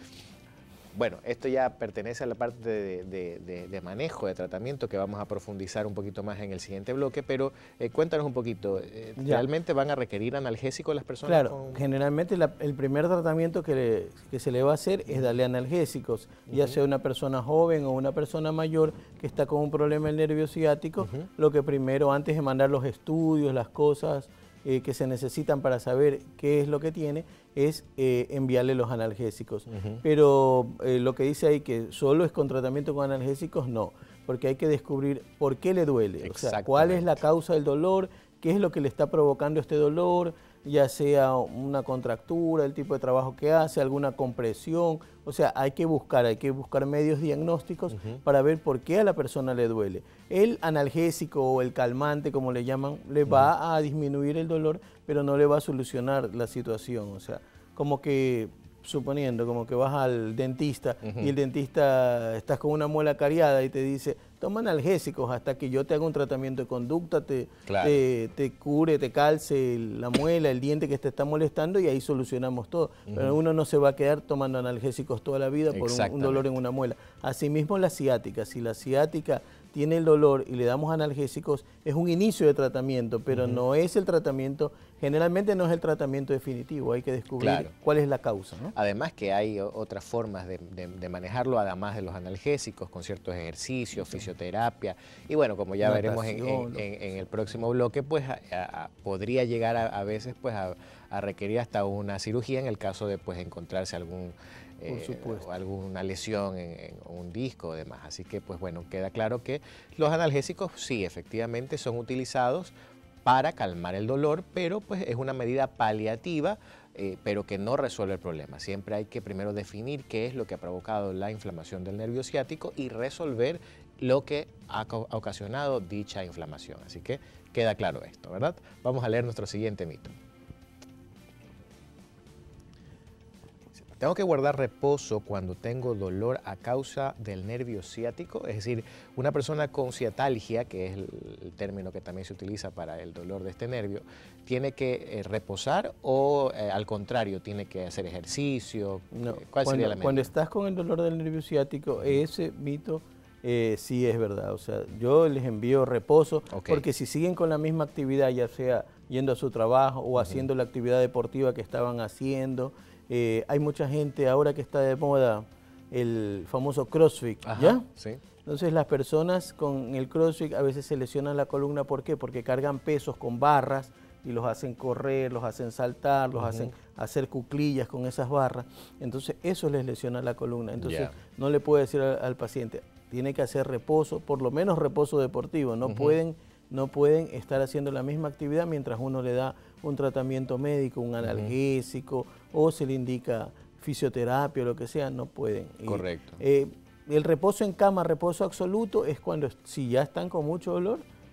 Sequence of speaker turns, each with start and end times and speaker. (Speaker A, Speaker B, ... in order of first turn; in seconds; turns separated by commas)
Speaker A: 0.9-11.8, Speaker B: 9.2-9.5, Speaker B: 11.2-88.7, Speaker A: 16.5-16.8, Speaker A: 29.7-30.0, Speaker A: 36.2-37.2, Speaker A: 47.9-48.2, Speaker A: 61.0-61.3, Speaker A: 67.7-68.0, Speaker A: 73.1-73.4, Speaker A: 75.7-76.5, Speaker A: 83.3-83.6, Speaker A: 87.4-87.7, Speaker A: 88.7-130.1, Speaker B: 95.8-96.9, Speaker B: 104.9-105.5, Speaker A: 133.8-150.3, Speaker B: 149.1-167.8, Speaker A: 156.5-156.8, Speaker A: 160.2-160.4, Speaker A: 167.4-168.2, Speaker B: 168.4-201.0, Speaker A: 176.3-176.7, Speaker A: 180.8-181.1, Speaker A: 185.8-186.2, Speaker A: 191.2-191.5, Speaker A: 195.9-196.4